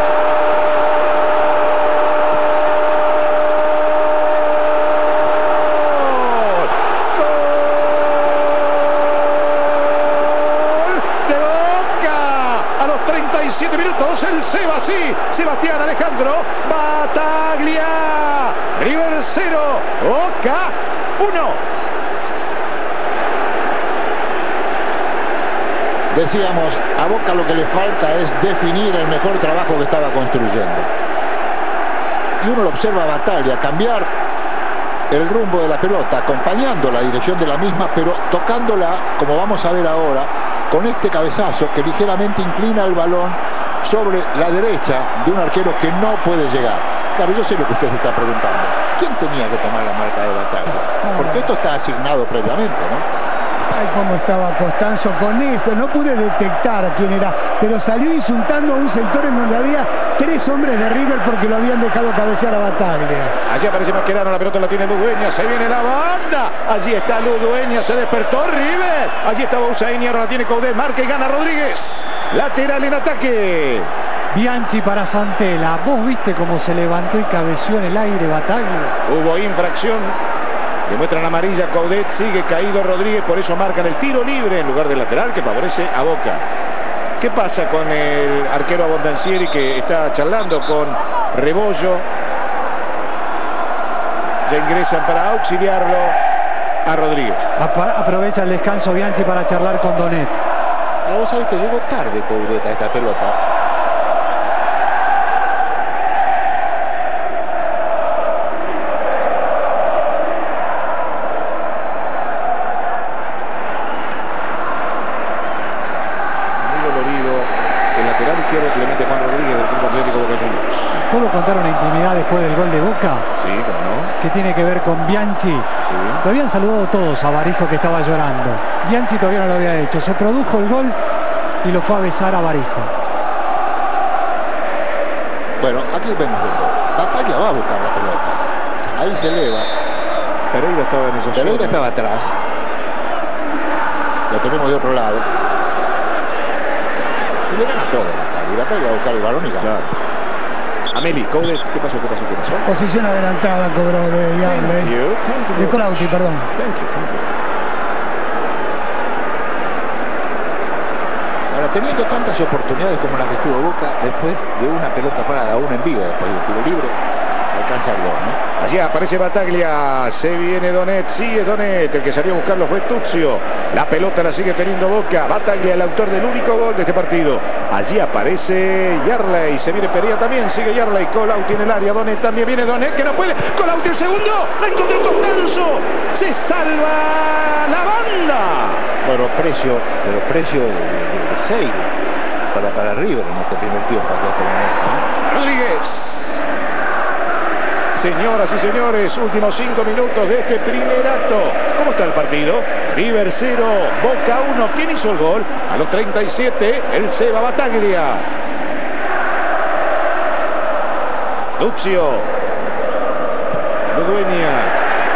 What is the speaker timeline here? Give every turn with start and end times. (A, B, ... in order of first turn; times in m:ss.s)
0:05.6-0:21.6 A
0:26.1-0:30.9 B
0:32.4-0:34.1 B
0:35.1-0:53.1 B
0:51.0-0:51.5 C
0:53.7-1:03.4 C
1:03.5-1:13.9 A
1:14.3-1:19.0 D
1:19.1-1:20.2 A
1:20.9-1:26.4 A
1:27.2-1:32.1 A
1:34.5-1:36.2 A
1:36.9-1:37.5 A
1:37.6-1:40.4 D
1:41.0-1:43.4 B
1:56.6-2:01.0 A
2:01.0-2:03.3 D
2:03.4-2:04.1 A
2:04.2-2:05.7 D
2:05.8-2:06.2 A
2:06.2-2:11.0 D
2:11.6-2:12.9 D
2:15.6-2:19.7 B
2:20.5-2:21.8 A
2:21.3-2:22.4 B
2:24.3-2:25.3 B
2:27.5-2:29.7 B
2:29.6-2:29.9 A
2:30.9-2:32.7 A
2:32.7-2:35.0 C
2:34.4-2:37.3 A
2:35.6-2:36.5 C
2:41.5-2:48.4 B
2:48.6-3:08.9 A
3:09.0-3:12.0 B
3:12.5-3:15.0 B
3:15.3-3:16.4 A
3:18.0-3:28.3 A
3:31.6-3:32.3 A
3:33.9-3:34.8 A